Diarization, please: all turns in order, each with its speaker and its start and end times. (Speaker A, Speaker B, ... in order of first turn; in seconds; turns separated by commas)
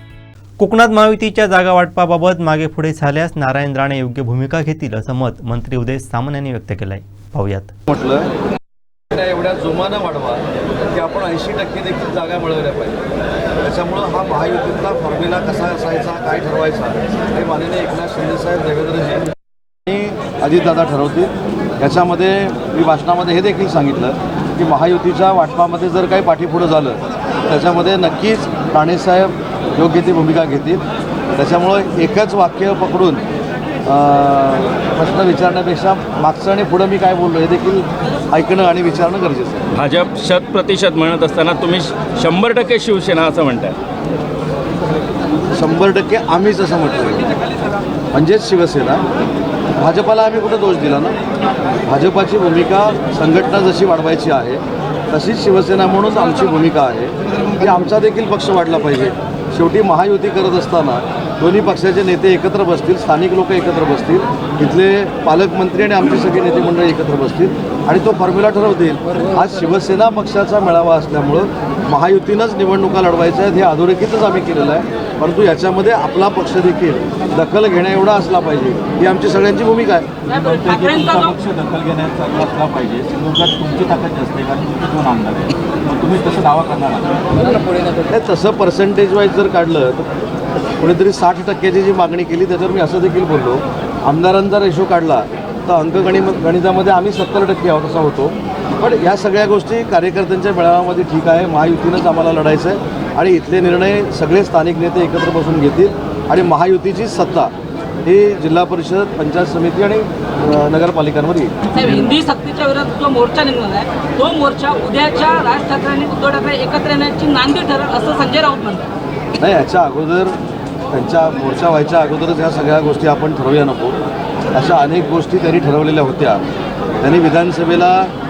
Speaker A: 0.6-7.7, Speaker B: 7.9-8.3, Speaker B: 9.1-13.0, Speaker B: 13.6-19.3, Speaker B: 19.9-30.8, Speaker B: 31.4-33.2, Speaker B: 33.9-39.6, Speaker C: 39.7-43.8, Speaker B: 45.5-47.3, Speaker B: 48.1-49.0, Speaker B: 49.8-51.2, Speaker B: 51.9-80.1, Speaker D: 80.3-81.4, Speaker E: 80.3-87.5, Speaker B: 88.1-90.1, Speaker B: 90.8-107.5, Speaker B: 108.0-111.5, Speaker D: 111.7-118.8, Speaker B: 119.4-120.4, Speaker B: 120.9-124.0, Speaker B: 124.5-126.4, Speaker B: 127.0-128.1